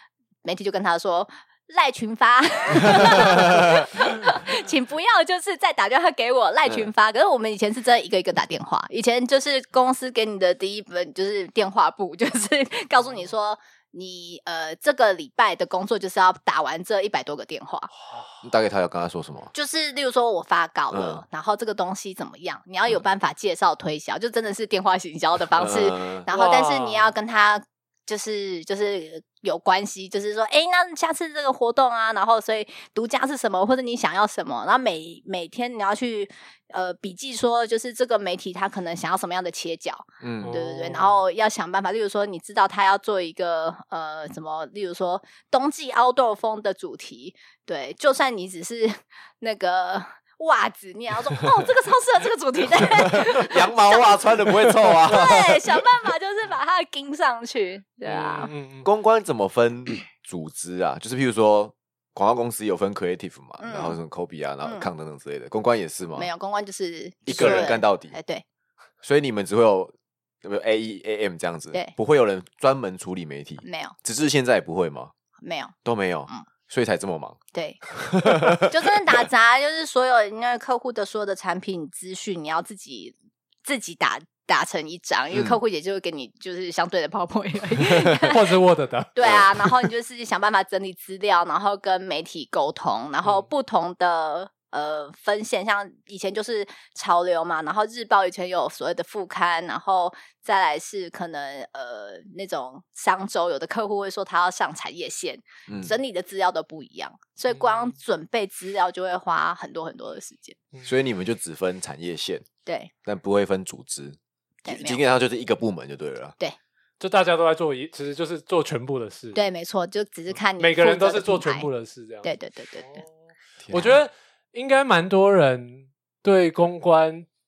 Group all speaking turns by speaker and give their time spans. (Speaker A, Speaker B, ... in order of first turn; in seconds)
Speaker A: 0.4-17.9, 19.5-58.5, 63.6-64.0, 64.6-64.9, 66.2-68.4, 73.6-74.0, 75.4-75.7, 77.5-77.8, 78.5-83.1, 83.7-88.5, 89.1-110.6, 112.6-112.9, 114.6-115.0, 119.3-121.7, 122.2-123.0
Speaker B: 3.3-3.7, 18.4-19.5, 20.9-21.2, 25.6-26.2, 40.2-40.5, 53.0-55.6, 58.8-66.3, 67.3-68.1, 69.0-75.1, 75.8-77.4, 78.0-78.7, 85.3-85.6, 105.7-106.0, 110.8-112.5, 113.0-116.3, 123.6-124.0
Speaker C: 18.0-18.4, 26.3-27.1, 40.4-41.2, 58.1-58.9, 67.3-67.7, 88.2-89.1, 107.5-107.9, 117.0-119.4, 120.6-123.1, 123.7-127.3